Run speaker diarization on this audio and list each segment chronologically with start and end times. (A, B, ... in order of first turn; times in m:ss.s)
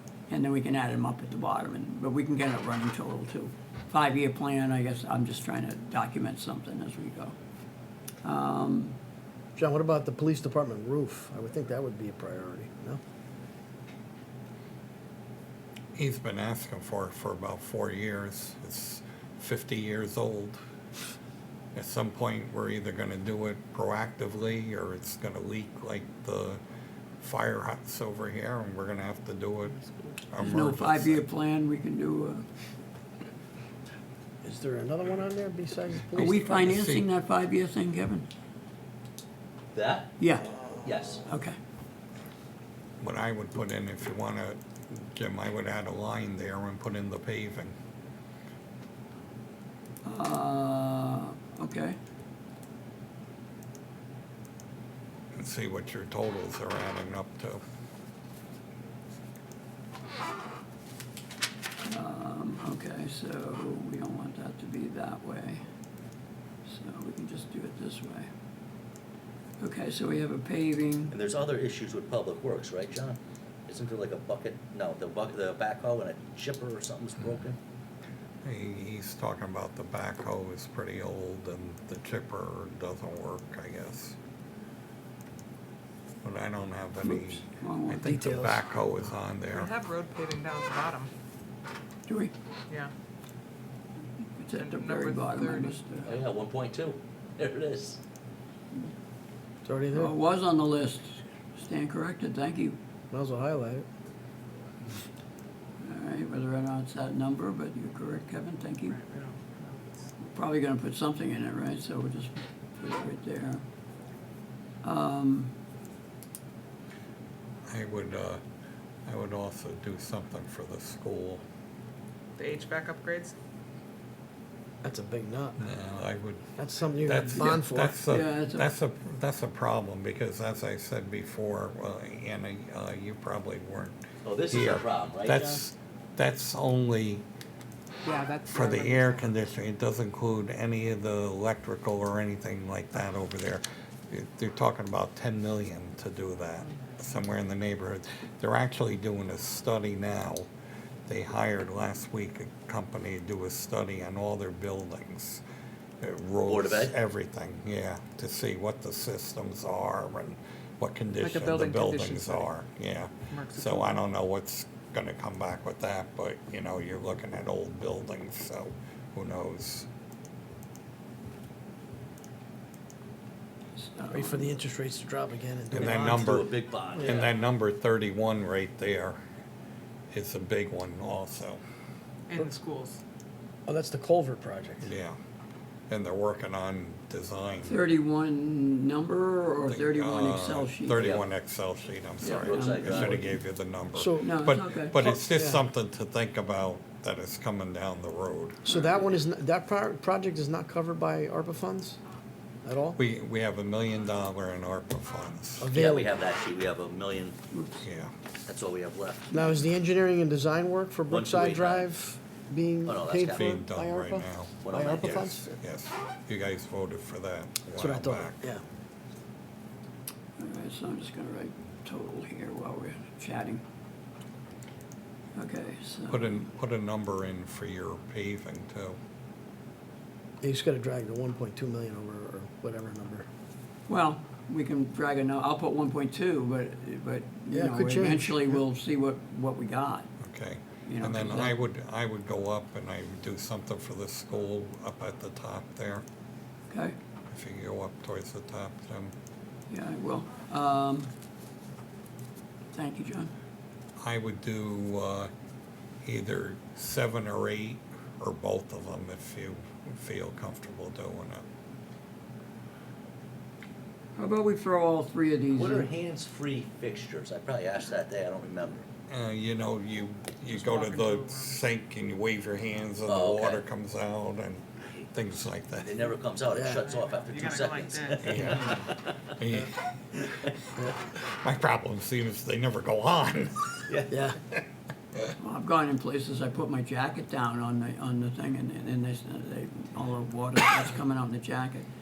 0:00.3-0:07.3 A
0:08.2-0:09.0 A
0:09.6-0:13.0 B
0:16.0-0:20.6 C
0:21.8-0:26.6 C
0:27.2-0:29.8 C
0:30.3-0:31.2 C
0:30.4-0:32.4 A
0:34.4-0:36.6 B
0:36.1-0:38.3 A
0:36.2-0:37.1 C
0:39.7-0:40.1 D
0:40.2-0:40.5 A
0:40.8-0:41.3 D
0:41.3-0:41.6 A
0:43.0-0:47.7 C
0:50.0-0:52.0 A
0:55.3-0:57.6 C
1:01.8-1:05.6 A
1:06.6-1:08.3 A
1:09.6-1:11.2 A
1:11.1-1:17.6 D
1:18.4-1:24.2 C
1:26.2-1:29.7 C
1:27.0-1:28.2 A
1:28.0-1:28.6 B
1:29.5-1:31.1 E
1:32.1-1:32.3 A
1:34.4-1:36.2 A
1:34.5-1:35.8 E
1:36.0-1:38.0 D
1:39.6-1:40.1 B
1:39.9-1:42.8 A
1:43.1-1:43.8 B
1:45.8-1:49.0 A
1:48.9-1:50.0 E
1:50.2-1:53.6 A
1:54.8-1:55.5 A
1:57.7-1:58.4 C
1:59.0-2:01.4 C
2:02.4-2:03.3 E
2:04.8-2:05.6 B
2:05.6-2:17.2 C
2:06.6-2:08.0 B
2:08.1-2:08.7 A
2:14.2-2:15.5 D
2:18.0-2:19.3 E
2:18.5-2:30.5 C
2:31.1-2:35.4 C
2:36.0-2:49.9 C
2:36.5-2:37.0 D
2:41.2-2:42.5 E
2:43.3-2:44.0 E
2:53.8-2:54.5 A
2:54.1-2:57.2 B
2:55.7-2:57.3 D
2:55.7-2:59.2 C
3:00.1-3:01.6 C
3:02.3-3:03.0 E
3:03.7-3:04.9 B
3:04.8-3:05.2 C
3:05.9-3:07.8 C
3:07.6-3:11.1 A
3:09.7-3:18.6 C
3:11.0-3:11.2 D
3:12.2-3:13.2 A
3:12.4-3:13.2 D
3:13.9-3:14.4 B
3:14.2-3:15.0 A
3:15.0-3:15.6 B
3:18.6-3:22.0 B
3:18.7-3:19.1 A
3:22.6-3:23.0 B
3:23.0-3:25.7 C
3:25.6-3:26.1 B
3:25.7-3:27.4 D
3:27.5-3:27.8 A
3:27.8-3:28.1 C
3:28.5-3:29.3 D
3:29.3-3:35.6 B
3:31.1-3:31.9 D
3:32.8-3:33.5 D
3:33.3-3:38.4 C
3:34.6-3:35.3 D
3:37.7-3:38.6 B
3:40.4-3:43.6 A
3:45.3-3:46.5 A
3:46.1-3:49.0 C
3:50.4-3:53.3 B
3:53.9-4:00.1 A
3:57.5-3:58.6 B
4:00.2-4:06.0 C
4:00.9-4:01.6 A
4:06.7-4:07.0 A
4:07.3-4:09.1 C
4:09.7-4:11.1 A
4:12.7-4:13.3 A
4:14.0-4:15.3 C
4:16.0-4:21.4 C
4:24.2-4:25.9 A
4:25.5-4:28.8 D
4:29.1-4:36.0 C
4:30.5-4:31.6 E
4:33.1-4:33.6 D
4:35.8-4:39.1 D
4:36.5-4:36.8 B
4:36.9-4:38.7 E
4:38.2-4:40.2 C
4:40.9-4:43.9 C
4:43.9-4:44.1 D
4:44.1-4:44.4 B
4:45.4-4:51.8 A